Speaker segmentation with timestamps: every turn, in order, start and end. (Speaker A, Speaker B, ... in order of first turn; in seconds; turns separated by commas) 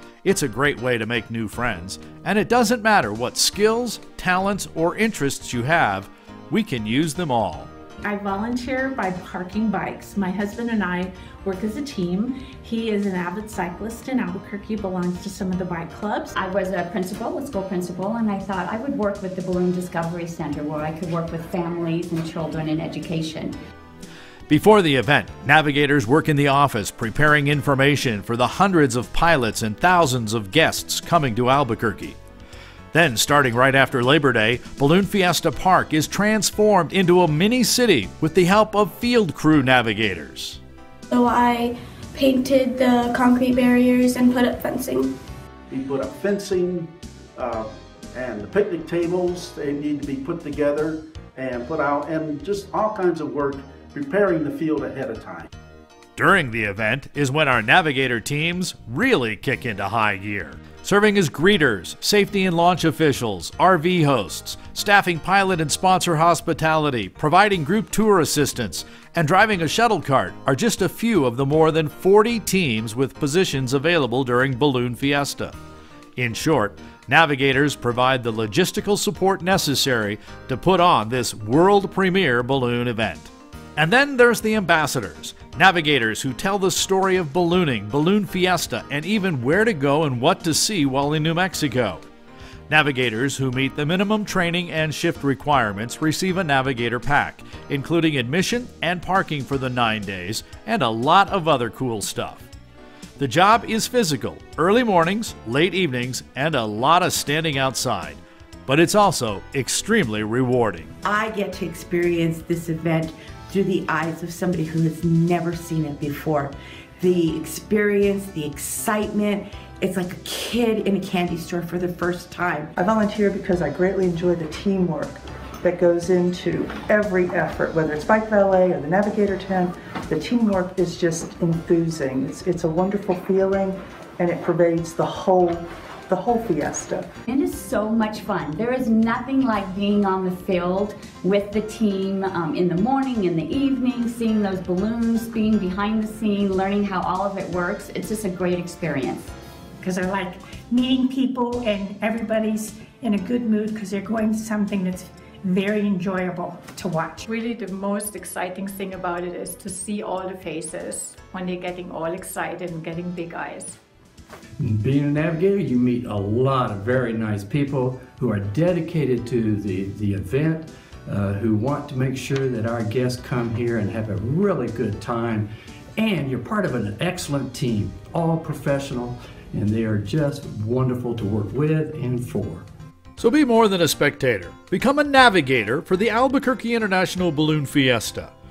Speaker A: 0.2-7.7, Speaker B: 8.0-16.3, Speaker C: 16.4-23.5, Speaker A: 24.5-32.2, Speaker A: 32.9-40.6, Speaker D: 41.1-45.1, Speaker E: 45.7-55.5, Speaker A: 56.2-75.5, Speaker A: 76.2-92.0, Speaker A: 92.7-102.5, Speaker A: 103.2-110.9, Speaker F: 111.0-122.7, Speaker G: 122.8-137.1, Speaker C: 137.3-149.3, Speaker H: 149.8-157.3, Speaker I: 157.3-163.8, Speaker J: 164.6-182.7, Speaker A: 183.2-188.3